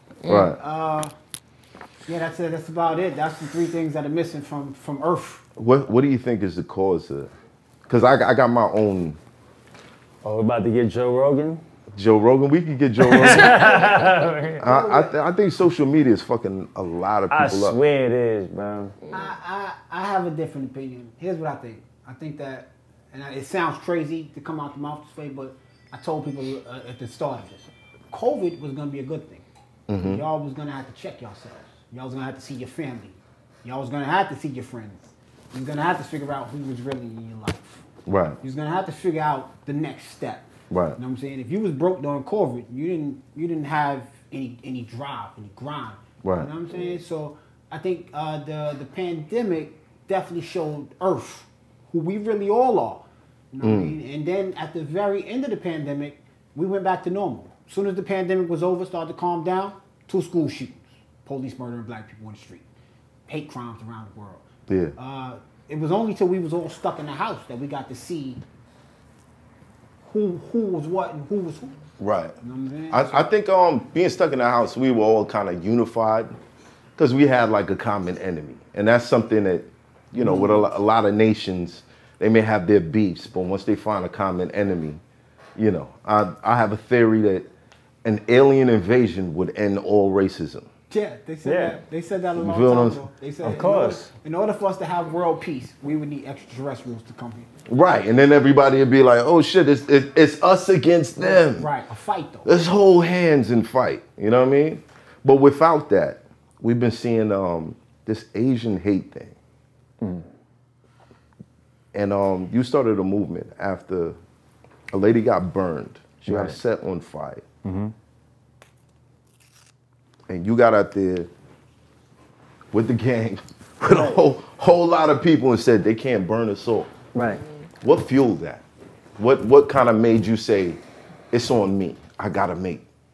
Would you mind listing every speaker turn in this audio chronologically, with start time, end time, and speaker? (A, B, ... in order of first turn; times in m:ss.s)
0:00.3-0:00.6 A
0:00.4-0:01.1 B
0:02.1-0:05.4 B
0:05.6-0:07.3 A
0:07.9-0:09.2 A
0:10.2-0:11.6 C
0:12.0-0:13.8 A
0:13.0-0:14.7 C
0:14.6-0:17.8 A
0:14.7-0:15.1 B
0:17.3-0:19.0 C
0:19.1-0:29.4 B
0:29.9-0:30.2 A
0:30.0-0:37.8 B
0:38.0-0:38.4 A
0:38.4-1:02.6 B
0:40.7-0:41.0 A
0:46.2-0:46.5 A
0:53.6-0:54.0 A
1:03.3-1:08.4 B
1:04.7-1:05.0 A
1:10.0-1:11.8 B
1:12.0-1:12.4 A
1:12.4-1:13.3 B
1:12.9-1:16.3 A
1:17.0-1:25.0 A
1:20.2-1:20.7 B
1:25.6-1:27.5 A
1:28.0-1:30.7 A
1:30.9-1:37.5 B
1:31.4-1:31.8 C
1:32.4-1:33.0 A
1:33.4-1:34.1 C
1:37.7-1:41.7 A
1:41.5-1:42.5 B
1:42.4-1:49.4 A
1:50.0-1:50.3 C
1:51.9-1:54.2 A
1:54.9-1:57.4 A
1:56.3-1:56.6 C
1:57.6-1:57.9 C
2:00.3-2:01.3 A
2:02.7-2:06.9 A
2:07.1-2:07.4 C
2:07.8-2:08.6 A
2:09.2-2:10.8 A
2:11.3-2:12.8 A